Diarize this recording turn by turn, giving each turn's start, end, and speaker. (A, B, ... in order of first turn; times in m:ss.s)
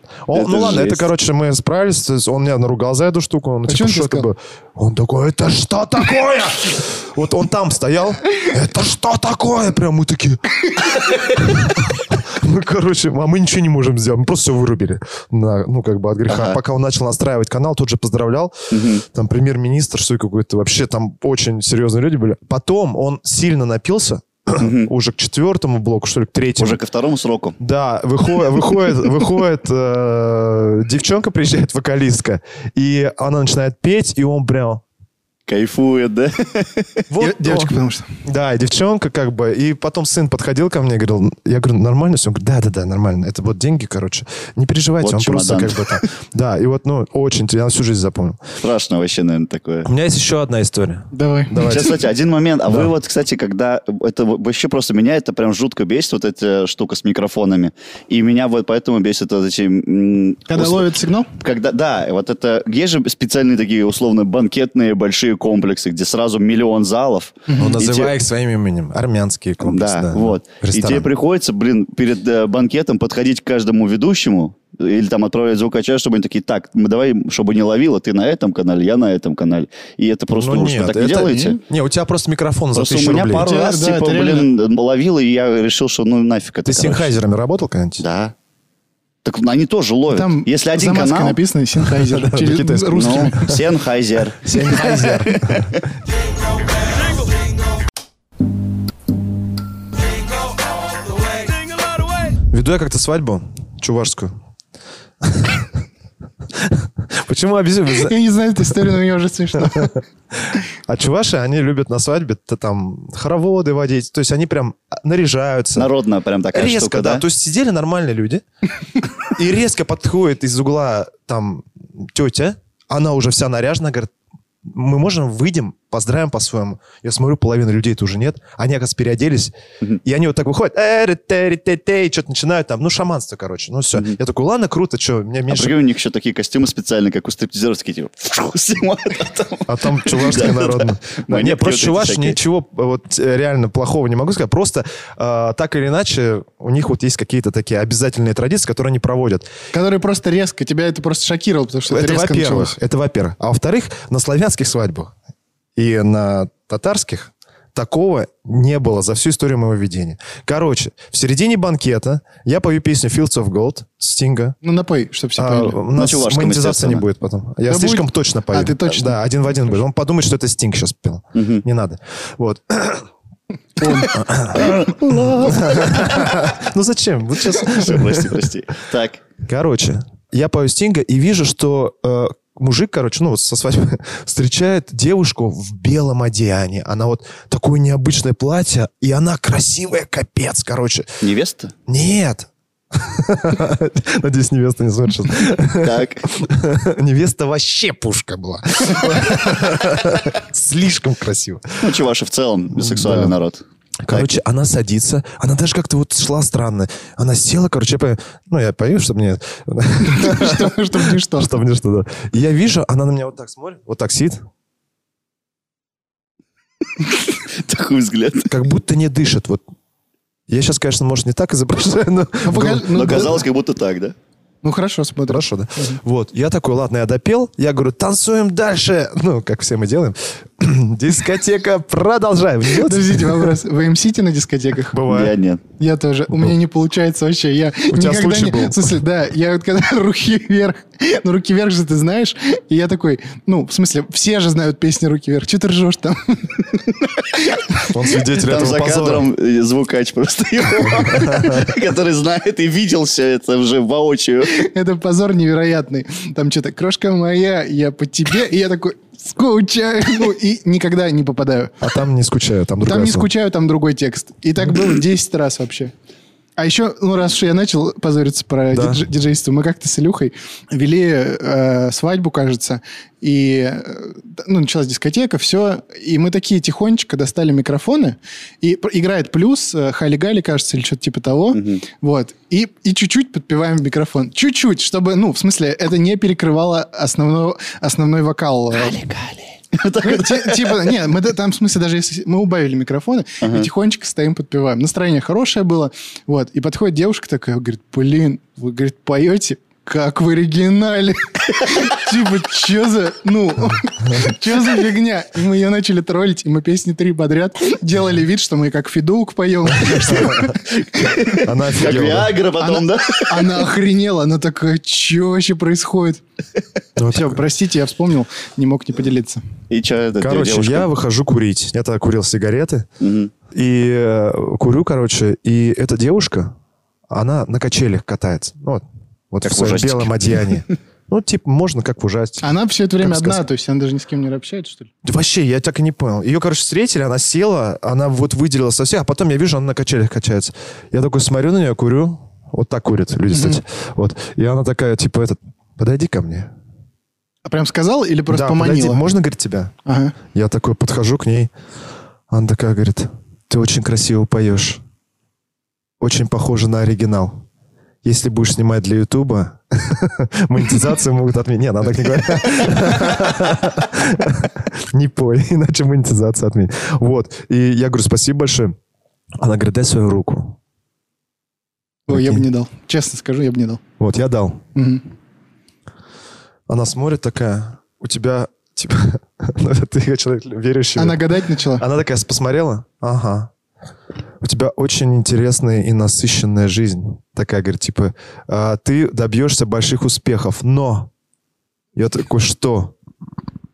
0:00.3-0:26.8 A
0:00.3-0:01.0 B
0:03.7-0:04.3 C
0:16.3-0:16.6 B
0:18.7-0:19.0 B
0:24.6-0:24.9 B
0:26.6-0:27.6 B
0:27.6-0:34.8 A
0:35.5-0:37.0 B
0:37.1-0:37.7 A
0:37.2-0:38.1 C
0:38.2-0:48.5 A
0:45.0-0:46.0 B
0:48.6-0:49.9 B
0:49.8-0:52.0 A
0:51.1-0:51.8 C
0:51.6-1:08.1 B
1:00.5-1:01.3 C
1:07.5-1:07.8 C
1:07.6-1:11.1 A
1:09.6-1:21.6 B
1:20.3-1:23.5 A
1:22.8-1:27.1 B
1:23.4-1:24.5 C
1:26.7-1:28.0 A
1:28.0-1:28.3 B
1:29.2-1:31.4 B
1:30.1-1:33.6 C
1:31.8-1:33.6 A
1:33.0-1:35.8 B
1:34.4-1:35.8 A
1:34.6-1:35.1 C
1:42.5-1:44.3 A
1:45.2-1:45.8 A
1:46.5-1:48.2 A
1:47.9-1:50.0 C
1:49.6-1:55.9 A
1:55.8-1:57.2 B
1:56.5-1:58.4 A
1:59.2-2:04.1 A
2:04.6-2:15.8 A
2:15.5-2:22.4 B
2:19.7-2:29.5 A
2:29.7-2:32.8 C
2:31.9-2:35.1 A
2:35.8-2:44.6 A
2:44.6-2:45.8 C
2:45.4-2:53.1 A
2:45.9-2:47.0 B
2:47.7-2:49.2 C
2:51.4-2:51.6 B
2:53.8-2:54.1 C
2:53.8-2:56.1 B
2:54.1-2:58.5 A
2:57.6-2:59.2 B
2:59.4-3:11.1 A
3:11.2-3:11.7 B
3:11.9-3:22.0 A
3:15.8-3:16.3 B
3:21.8-3:24.3 B
3:22.8-3:23.3 A
3:24.0-3:34.4 A
3:30.0-3:31.6 C
3:37.5-3:38.5 B
3:38.5-3:39.6 A
3:40.5-3:43.3 A
3:42.4-3:43.4 C
3:42.9-3:44.2 B
3:44.6-3:46.0 C
3:45.3-3:53.5 A
3:52.7-3:55.0 C
3:54.9-3:55.4 A
3:55.1-3:55.6 B
3:55.8-4:06.8 C
3:57.9-3:59.0 A
4:07.5-4:07.9 C
4:07.9-4:09.3 A
4:08.3-4:14.6 B
4:10.9-4:11.7 A
4:14.5-4:21.8 C
4:21.8-4:23.3 A
4:22.8-4:25.9 C
4:26.6-4:49.0 C
4:28.7-4:29.0 A
4:41.5-4:41.8 B
4:48.9-4:50.9 B
4:50.0-5:11.2 C
4:53.4-4:53.7 B
5:09.8-5:10.5 A
5:10.7-5:13.6 B
5:11.4-5:12.4 A
5:12.6-5:16.2 C
5:17.0-5:17.4 A
5:17.1-5:19.4 C
5:19.7-5:20.9 B
5:20.2-5:22.9 A
5:23.0-5:23.3 B
5:23.5-5:26.5 A
5:27.1-5:32.5 A
5:29.4-5:30.5 B
5:32.4-5:34.9 C
5:33.0-5:33.4 A
5:35.0-5:46.5 A
5:43.3-5:43.6 C
5:47.5-5:49.0 C
5:48.3-5:49.7 A
5:49.9-5:50.2 C
5:50.3-5:51.5 A
5:52.3-5:54.8 A
5:56.0-5:57.4 A
5:58.0-6:08.8 A
6:09.4-6:10.6 A
6:12.1-6:13.8 C
6:12.1-6:12.5 A
6:14.0-6:14.6 A
6:14.8-6:15.0 C
6:16.7-6:21.2 A
6:21.0-6:21.8 C
6:21.8-6:23.5 A
6:24.4-6:31.1 A
6:32.0-6:32.9 A